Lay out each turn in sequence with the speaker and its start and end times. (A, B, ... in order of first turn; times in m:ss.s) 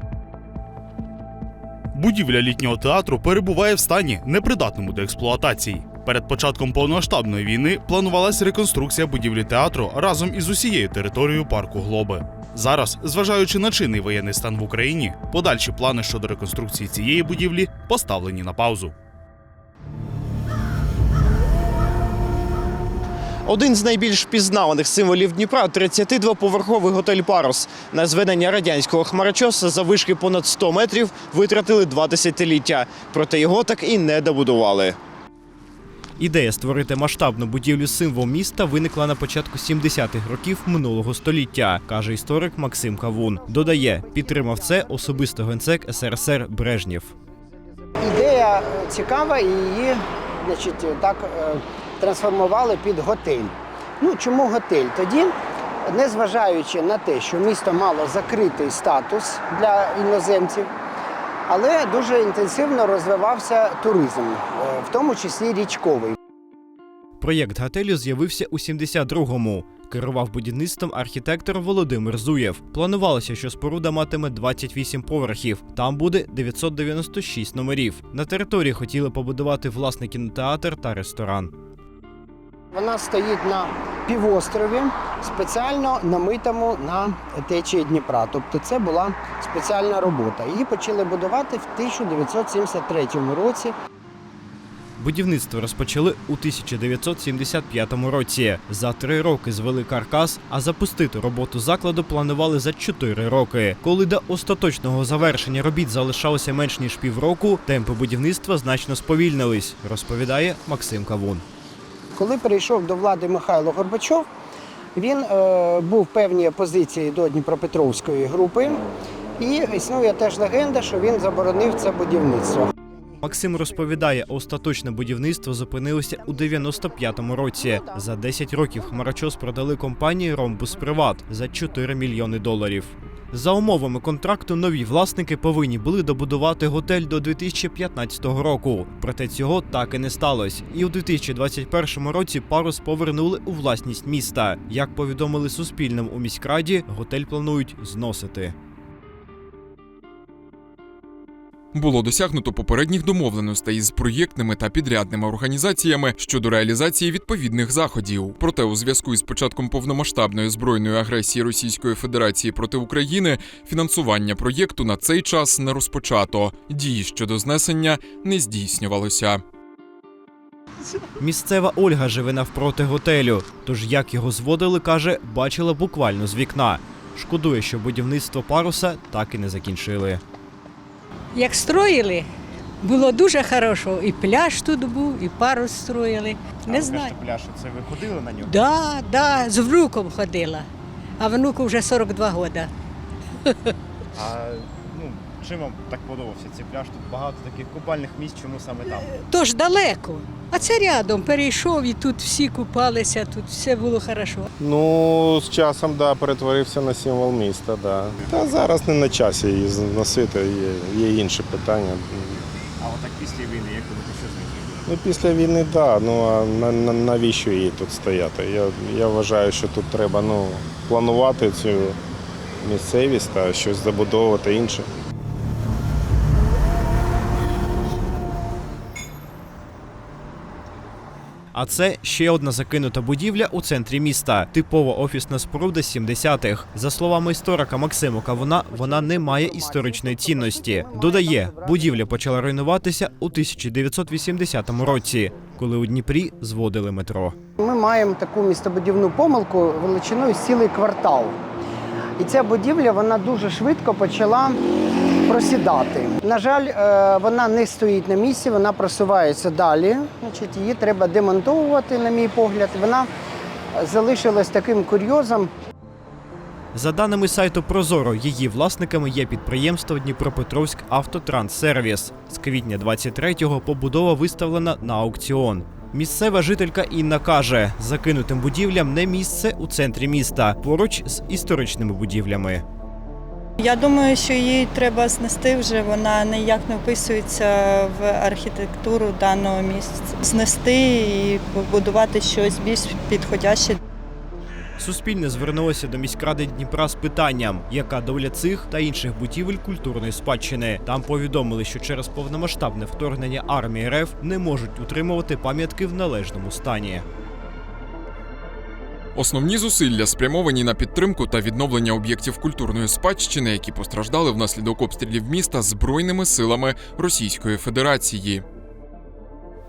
0:01.9-0:18.9 A
0:23.4-0:35.0 B
0:36.2-0:47.1 B
0:43.6-0:44.7 C
0:48.0-0:55.3 C
0:55.8-1:00.7 C
1:01.5-1:06.2 C
1:07.2-1:21.5 B
1:22.7-1:33.7 C
1:35.0-1:51.4 B
1:52.1-1:54.2 C
1:54.9-1:58.8 C
1:59.4-2:02.7 C
2:03.2-2:28.5 B
2:06.2-2:08.0 C
2:31.7-2:49.4 D
2:51.2-3:00.2 B
3:01.3-3:02.3 E
3:02.8-3:07.2 E
3:06.7-3:08.6 B
3:08.4-3:10.7 E
3:11.2-3:12.7 E
3:14.1-3:19.1 B
3:19.0-3:24.5 E
3:24.6-3:32.4 F
3:32.8-3:34.9 B
3:34.9-3:42.0 F
3:42.6-3:44.9 F
3:51.5-4:07.4 B
3:58.4-4:02.0 C
4:07.6-4:11.4 C
4:12.2-4:14.6 C
4:15.2-4:23.1 C
4:23.7-4:25.5 C
4:26.7-4:42.6 B
4:43.6-4:53.8 G
4:54.8-5:07.0 B
5:09.1-5:18.4 D